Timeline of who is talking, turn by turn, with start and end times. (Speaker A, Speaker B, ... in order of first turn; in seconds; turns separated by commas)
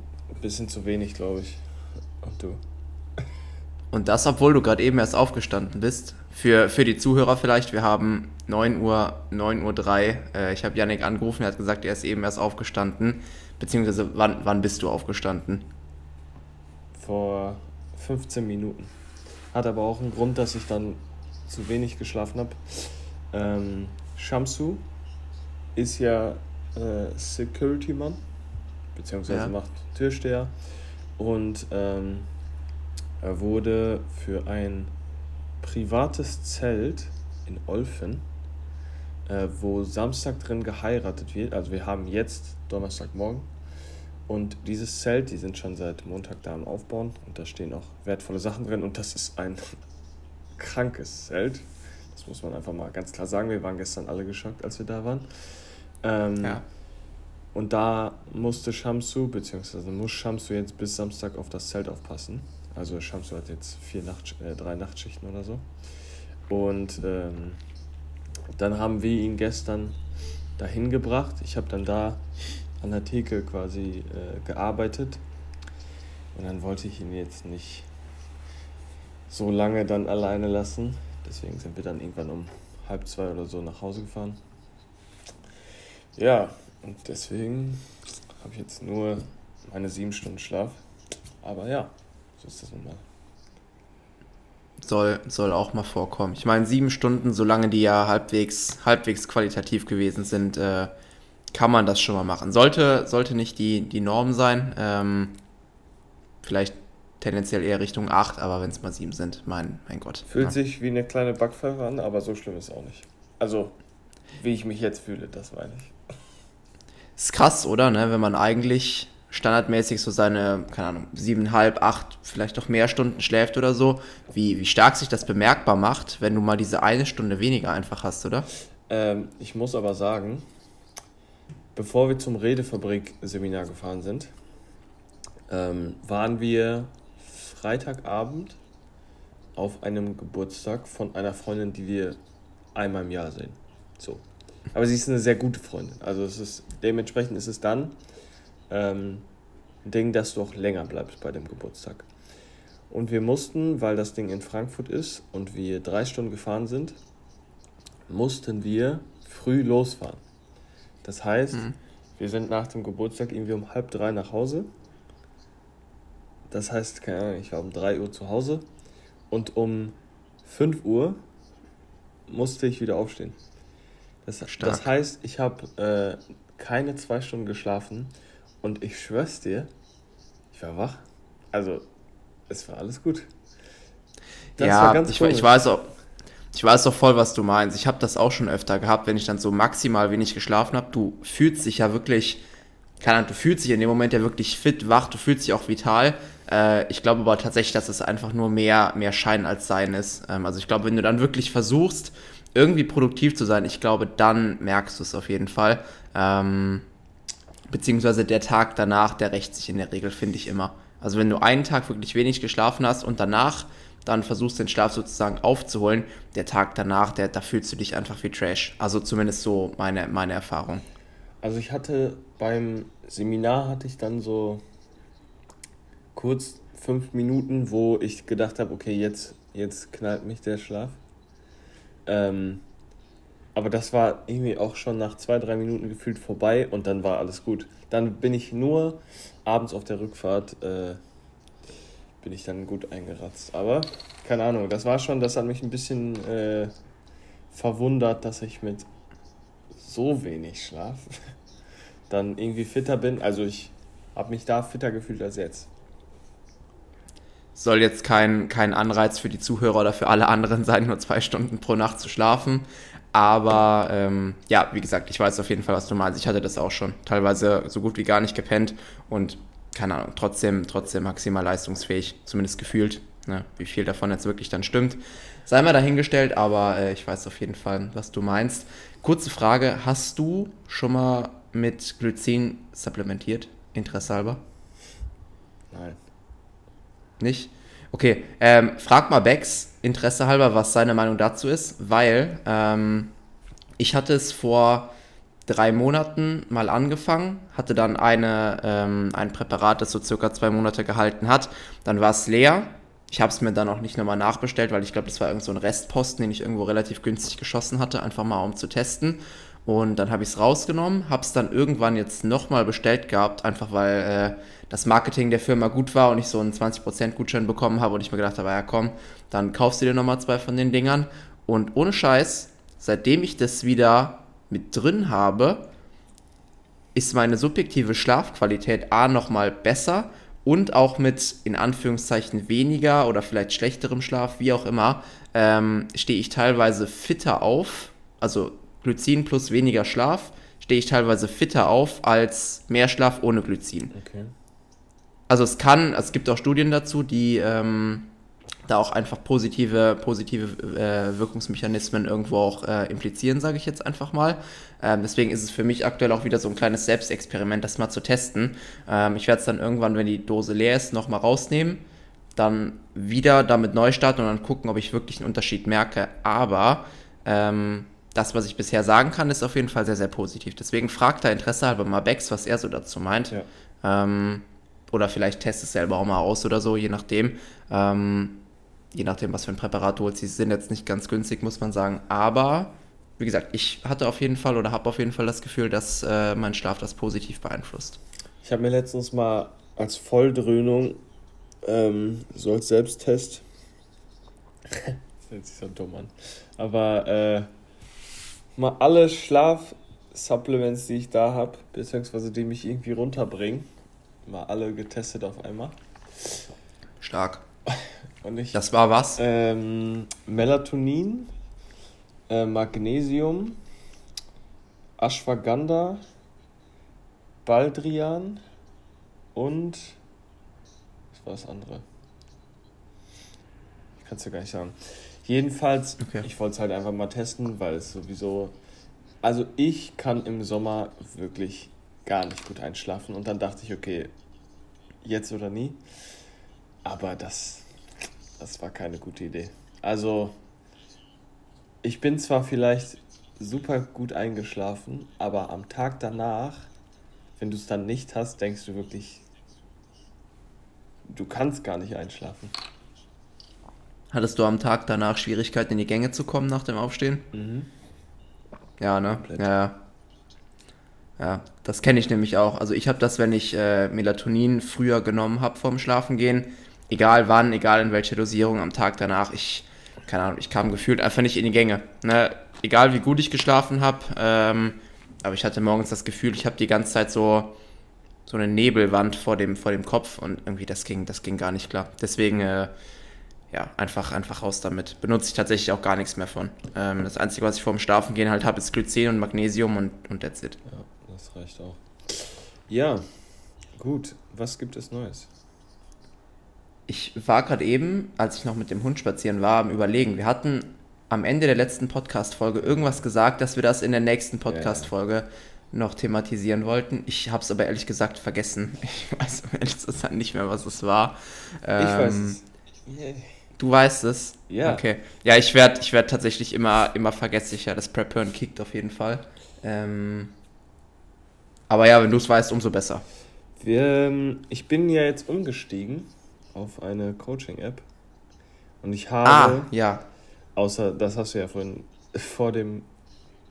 Speaker A: 0.3-1.6, Speaker A: 2.2-2.6, Speaker B: 3.9-15.7, Speaker A: 16.9-18.9, Speaker A: 19.5-24.8, Speaker A: 25.8-28.2, Speaker A: 28.9-30.5, Speaker B: 29.3-29.5, Speaker A: 31.2-32.3, Speaker A: 33.2-34.9, Speaker A: 35.6-38.3, Speaker A: 39.3-43.5, Speaker A: 44.3-49.7, Speaker A: 50.6-55.3, Speaker A: 56.0-56.6, Speaker A: 57.5-65.7, Speaker A: 66.5-67.6, Speaker A: 68.5-70.0, Speaker A: 70.6-72.2, Speaker A: 72.8-75.2, Speaker A: 76.3-77.9, Speaker A: 79.3-84.4, Speaker A: 86.2-90.8, Speaker A: 91.4-93.0, Speaker B: 94.8-100.9, Speaker B: 101.5-105.4, Speaker B: 106.4-110.5, Speaker A: 110.3-113.8, Speaker A: 114.3-115.9, Speaker B: 117.2-128.5, Speaker A: 128.9-130.4, Speaker A: 131.7-134.3, Speaker A: 135.5-138.6, Speaker A: 139.5-142.2, Speaker A: 142.7-147.9, Speaker A: 148.7-149.3, Speaker A: 149.8-152.1, Speaker A: 152.9-157.0, Speaker A: 158.1-160.2, Speaker A: 161.0-164.7, Speaker A: 166.5-168.7, Speaker A: 169.3-171.2, Speaker A: 172.3-173.4, Speaker A: 174.2-179.7, Speaker B: 174.5-174.8, Speaker A: 180.5-181.8, Speaker A: 182.5-183.3, Speaker A: 184.6-185.6, Speaker B: 184.6-185.9, Speaker B: 186.5-192.4, Speaker B: 193.0-206.8, Speaker B: 207.7-220.8, Speaker A: 221.4-224.6, Speaker A: 226.1-231.0, Speaker A: 232.1-232.6, Speaker A: 233.5-241.0, Speaker A: 242.2-246.7, Speaker A: 247.5-248.9, Speaker A: 249.8-251.3, Speaker A: 252.1-255.7, Speaker B: 257.6-284.4, Speaker A: 285.7-286.0, Speaker B: 287.2-293.1, Speaker B: 293.8-294.9, Speaker B: 295.4-325.7, Speaker B: 326.9-343.9, Speaker A: 343.9-344.3, Speaker B: 345.3-348.1, Speaker B: 348.7-361.8, Speaker B: 362.4-388.0, Speaker A: 388.4-391.0, Speaker A: 391.6-393.4, Speaker A: 394.7-397.5, Speaker A: 398.6-403.7, Speaker A: 404.2-406.3, Speaker B: 407.0-407.4, Speaker A: 408.2-408.6, Speaker B: 408.5-409.2, Speaker A: 409.2-411.3, Speaker A: 412.3-413.6, Speaker A: 415.0-416.0, Speaker A: 417.4-418.4, Speaker A: 419.3-420.0, Speaker A: 421.1-421.8, Speaker A: 424.0-428.6, Speaker A: 429.2-434.1, Speaker A: 435.0-435.8, Speaker A: 436.8-437.6, Speaker A: 438.4-440.4, Speaker A: 441.8-446.7, Speaker A: 447.4-449.2, Speaker A: 451.1-452.5, Speaker B: 454.1-457.3, Speaker A: 457.3-457.7, Speaker B: 458.8-459.8, Speaker A: 459.2-459.5, Speaker B: 461.2-477.5, Speaker B: 478.2-482.7, Speaker B: 483.5-490.6, Speaker A: 490.6-493.2, Speaker A: 493.8-495.3, Speaker B: 496.9-512.4, Speaker A: 504.5-504.9, Speaker A: 511.8-513.3, Speaker B: 513.6-520.4, Speaker A: 514.5-514.8, Speaker B: 521.7-523.0, Speaker A: 523.6-527.8, Speaker A: 528.8-529.7, Speaker B: 529.2-530.0, Speaker A: 530.5-532.9